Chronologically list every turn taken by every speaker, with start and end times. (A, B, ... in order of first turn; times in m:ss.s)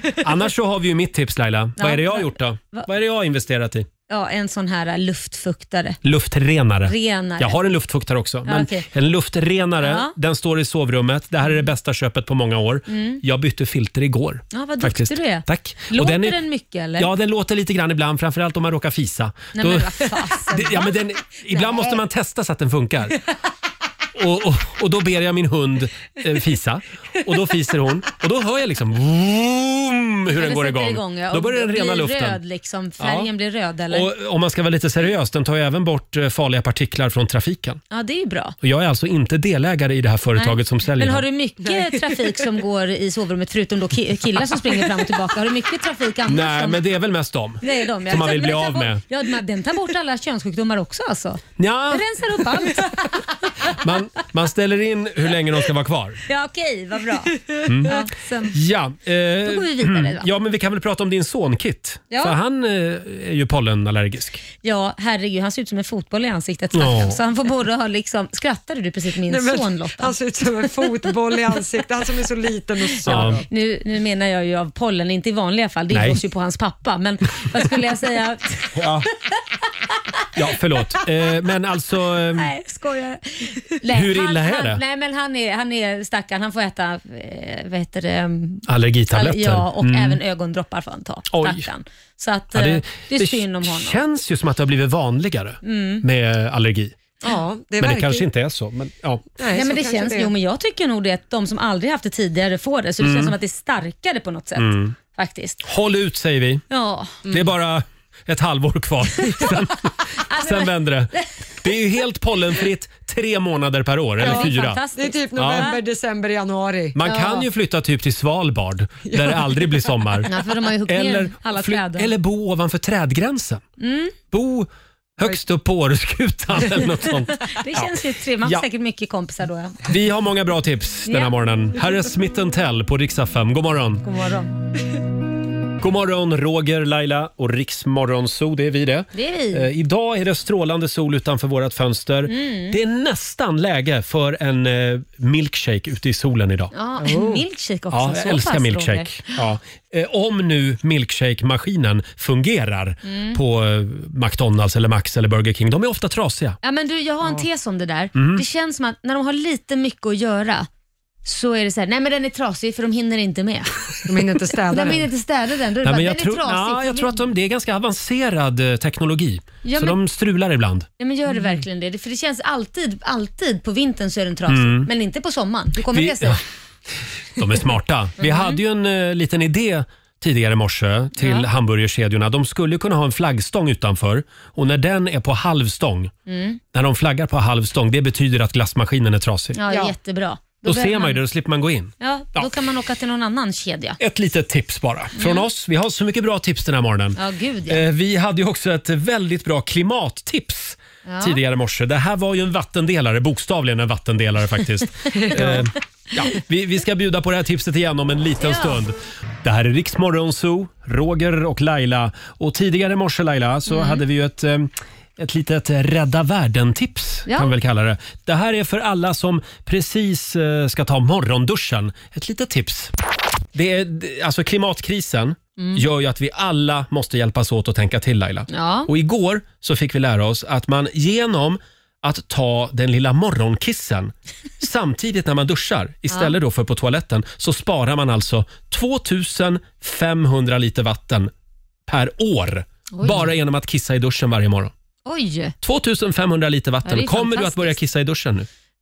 0:00.2-0:03.9 A
0:01.8-0:02.9 B
0:04.1-0:06.0 B
0:06.0-0:16.4 A
0:06.8-0:07.6 B
0:08.4-0:08.8 B
0:09.8-0:10.1 B
0:12.9-0:13.2 B
0:14.5-0:17.1 B
0:17.0-0:23.2 A
0:19.5-0:20.9 B
0:21.6-0:21.8 C
0:24.1-0:32.4 A
0:30.3-0:34.1 B
0:33.0-0:33.3 A
0:33.9-0:37.8 A
0:37.9-0:38.5 B
0:38.6-0:41.2 A
0:40.3-0:46.8 B
0:41.6-0:42.4 C
0:46.3-0:49.0 A
0:47.6-0:53.7 B
0:51.6-0:52.1 A
0:53.7-0:56.2 A
0:56.3-0:58.6 B
0:57.6-1:04.4 A
0:59.4-1:00.3 B
1:02.1-1:02.3 B
1:04.6-1:10.1 B
1:06.7-1:07.2 A
1:09.2-1:13.5 C
1:12.9-1:18.9 B
1:13.0-1:13.4 A
1:15.9-1:16.2 A
1:18.7-1:19.1 A
1:20.3-1:22.5 A
1:22.4-1:34.0 B
1:23.9-1:24.8 A
1:28.7-1:30.2 A
1:31.3-1:31.7 A
1:32.5-1:37.0 A
1:35.6-1:36.0 B
1:37.2-1:38.2 C
1:37.8-1:39.2 A
1:39.4-1:40.3 C
1:39.5-1:45.6 B
1:43.0-1:43.4 A
1:44.6-1:44.9 A
1:45.6-1:46.6 A
1:46.7-1:47.2 B
1:47.3-1:54.8 A
1:50.2-1:51.2 B
1:54.2-1:55.8 B
1:54.2-1:57.0 C
1:55.3-1:55.7 A
1:56.9-2:00.3 A
1:57.0-1:57.4 B
1:59.0-1:59.8 C
2:00.3-2:02.1 B
2:00.8-2:03.6 A
2:03.8-2:04.1 B
2:04.3-2:08.6 A
2:07.4-2:09.8 B
2:09.8-2:14.0 A
2:11.1-2:11.3 B
2:14.0-2:14.5 B
2:15.8-2:26.7 A
2:19.1-2:19.7 B
2:22.3-2:22.8 B
2:26.7-2:29.4 B
2:27.0-2:27.4 C
2:27.9-2:36.6 A
2:33.0-2:33.4 B
2:36.6-2:40.7 B
2:38.1-2:38.4 A
2:41.2-2:44.1 B
2:44.0-2:45.1 C
2:44.7-2:47.2 B
2:45.8-2:50.9 A
2:49.6-2:50.0 B
2:51.0-2:56.4 B
2:54.5-2:54.9 A
2:55.9-2:56.4 A
2:57.4-3:06.1 A
2:58.2-2:58.6 B
3:01.2-3:01.5 B
3:06.3-3:06.6 B
3:06.7-3:09.6 A
3:09.5-3:11.2 B
3:09.7-3:09.9 C
3:10.6-3:12.5 A
3:12.0-3:14.0 B
3:14.0-3:42.9 A
3:15.2-3:15.5 B
3:17.2-3:17.8 B
3:21.0-3:21.4 B
3:25.2-3:25.6 C
3:28.4-3:28.8 B
3:33.6-3:34.0 B
3:37.3-3:37.5 B
3:43.5-4:01.3 A
3:45.6-3:45.8 B
3:48.5-3:48.9 B
4:01.9-4:04.7 A
4:02.9-4:03.3 B
4:05.0-4:05.5 B
4:05.6-4:08.5 A
4:06.8-4:07.8 B